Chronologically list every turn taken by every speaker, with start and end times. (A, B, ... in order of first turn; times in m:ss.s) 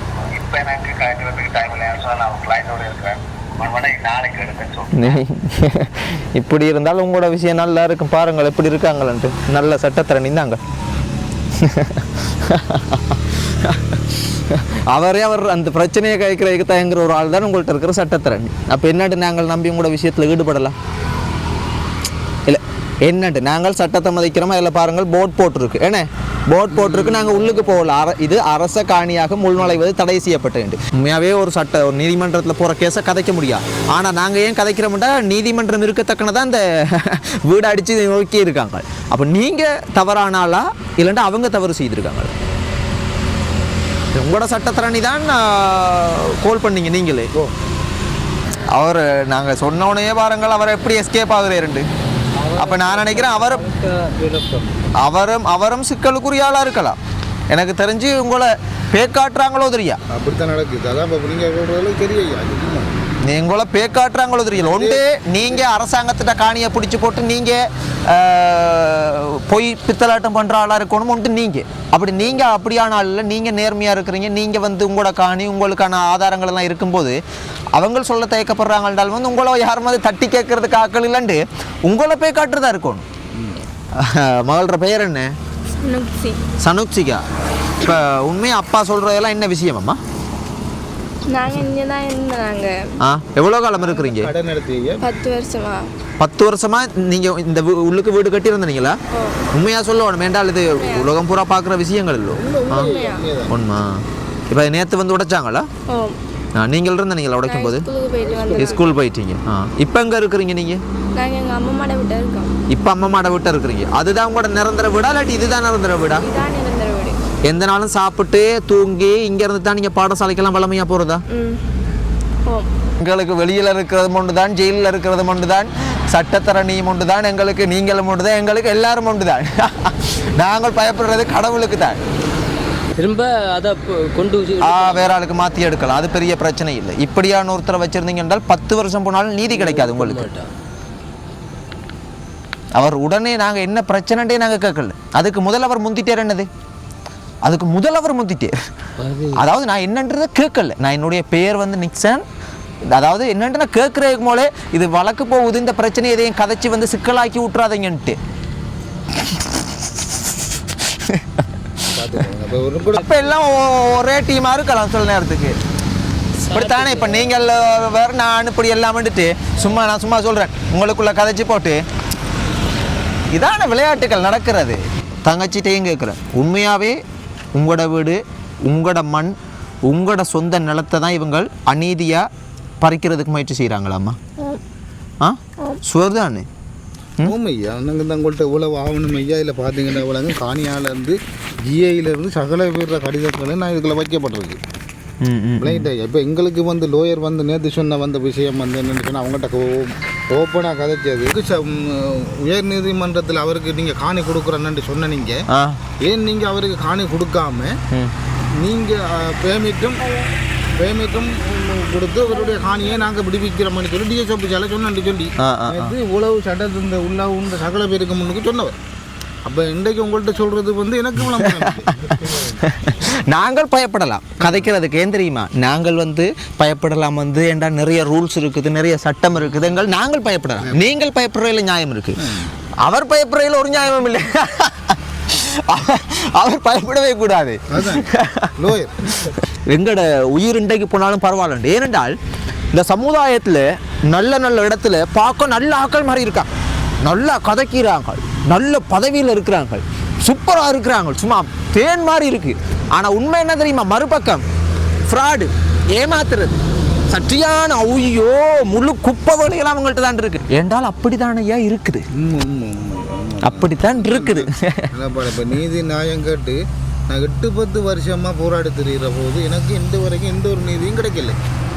0:00.2-0:05.2 A
0:04.9-0:10.6 B
0:11.6-0:20.7 B
0:22.4-0:42.3 B
0:26.7-0:27.3 C
0:44.1-0:47.3 B
0:48.7-0:51.8 B
0:52.5-0:53.7 B
0:53.7-0:54.3 D
0:54.3-0:54.6 C
0:55.0-0:57.0 B
0:57.5-1:00.0 B
1:00.1-1:02.9 C
1:03.2-1:17.2 B
1:04.5-1:05.0 C
1:17.7-1:23.0 B
1:24.0-1:25.3 B
1:25.8-1:26.4 E
1:26.6-1:27.2 B
1:27.8-1:30.0 B
1:31.3-1:32.9 E
1:33.0-1:34.3 B
1:33.7-1:35.0 C
1:35.0-1:35.9 E
1:36.2-1:39.0 B
1:39.1-1:39.4 E
1:39.5-1:42.9 B
1:40.8-1:41.1 E
1:42.4-1:43.5 C
1:42.8-1:43.2 E
1:43.5-1:45.7 B
1:45.9-1:46.2 E
1:46.6-1:47.9 B
1:47.4-1:48.8 E
1:48.2-1:48.9 C
1:48.6-1:50.8 B
1:51.1-1:52.5 E
1:52.7-1:56.2 B
1:56.2-1:57.2 E
1:57.4-2:01.2 B
2:01.3-2:01.6 E
2:03.0-2:12.0 B
2:13.0-2:15.1 D
2:14.6-2:20.2 B
2:19.4-2:20.5 D
2:22.8-2:26.5 B
2:27.4-2:28.5 B
2:29.0-2:29.4 D
2:29.3-2:32.2 B
2:32.9-2:38.2 B
2:40.8-2:41.8 B
2:41.9-2:43.3 C
2:43.0-2:45.6 B
2:46.4-2:47.3 D
2:46.5-2:51.8 B
2:53.3-2:57.0 B
2:57.5-2:59.3 B
2:59.8-3:02.3 B
3:02.8-3:04.2 B
3:05.2-3:06.5 B
3:07.2-3:14.6 C
3:15.2-3:15.9 B
3:15.6-3:25.4 C
3:25.5-3:25.8 B
3:26.0-3:27.8 C
3:28.6-3:30.1 C
3:30.8-3:38.7 C
3:35.4-3:35.9 B
3:39.4-3:42.6 C
3:41.3-3:52.2 B
3:44.4-3:44.7 C
3:52.2-3:52.5 C
3:52.8-4:02.2 B
3:57.7-3:59.2 C
4:02.7-4:06.5 B
4:07.0-4:14.4 B
4:15.1-4:22.0 B
4:22.1-4:26.6 C
4:23.4-4:24.9 B
4:27.1-4:31.4 C